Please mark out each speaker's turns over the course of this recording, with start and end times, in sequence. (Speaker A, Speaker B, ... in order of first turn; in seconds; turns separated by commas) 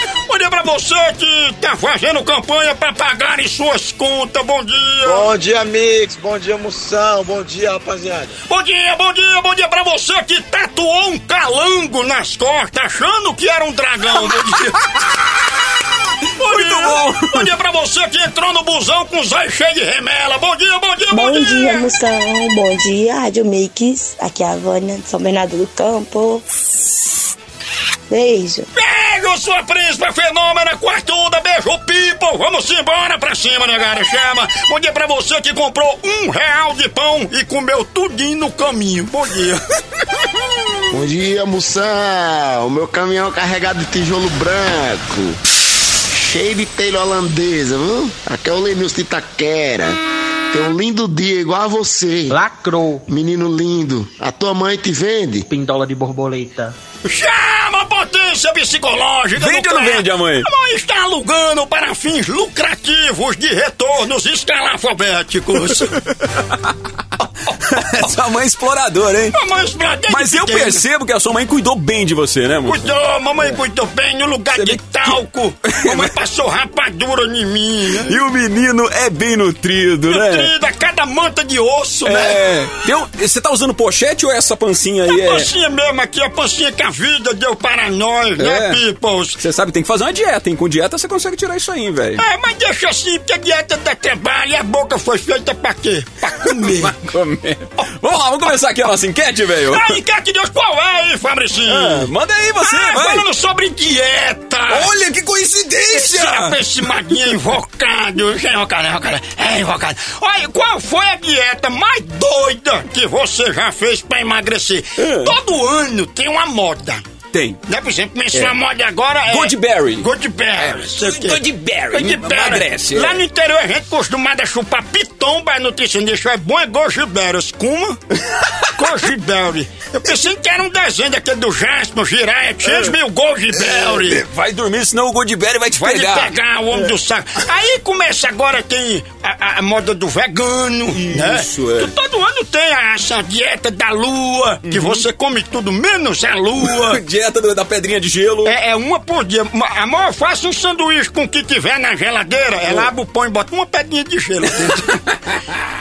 Speaker A: 0.3-5.3, Speaker B: 5.0-8.3, Speaker A: 8.5-14.8, Speaker A: 16.4-21.9, Speaker C: 16.4-17.4, Speaker D: 21.1-26.5, Speaker D: 28.1-28.7, Speaker A: 28.7-39.6, Speaker E: 40.9-45.4, Speaker E: 46.1-50.0, Speaker E: 50.5-52.4, Speaker F: 52.3-53.0, Speaker E: 53.1-55.5, Speaker F: 55.5-56.7, Speaker A: 57.0-65.9, Speaker C: 59.4-60.5, Speaker C: 67.7-69.3, Speaker A: 69.3-70.8, Speaker C: 70.1-73.6, Speaker A: 72.7-78.2, Speaker C: 74.6-76.1, Speaker C: 78.0-80.5, Speaker A: 80.1-82.4, Speaker C: 82.0-85.5, Speaker A: 85.1-89.4, Speaker C: 88.4-88.8, Speaker C: 89.4-92.2, Speaker A: 92.2-97.0, Speaker C: 96.5-100.0, Speaker A: 99.7-104.9, Speaker C: 101.7-103.2, Speaker C: 104.7-106.5, Speaker A: 105.9-117.0, Speaker C: 115.0-115.3, Speaker C: 117.3-117.6, Speaker A: 117.7-128.0, Speaker C: 119.3-123.2, Speaker A: 128.8-134.2, Speaker C: 132.7-132.9, Speaker C: 133.5-136.3, Speaker A: 135.7-147.0, Speaker C: 140.9-141.9, Speaker C: 144.7-145.0, Speaker C: 146.6-148.5, Speaker A: 148.4-154.9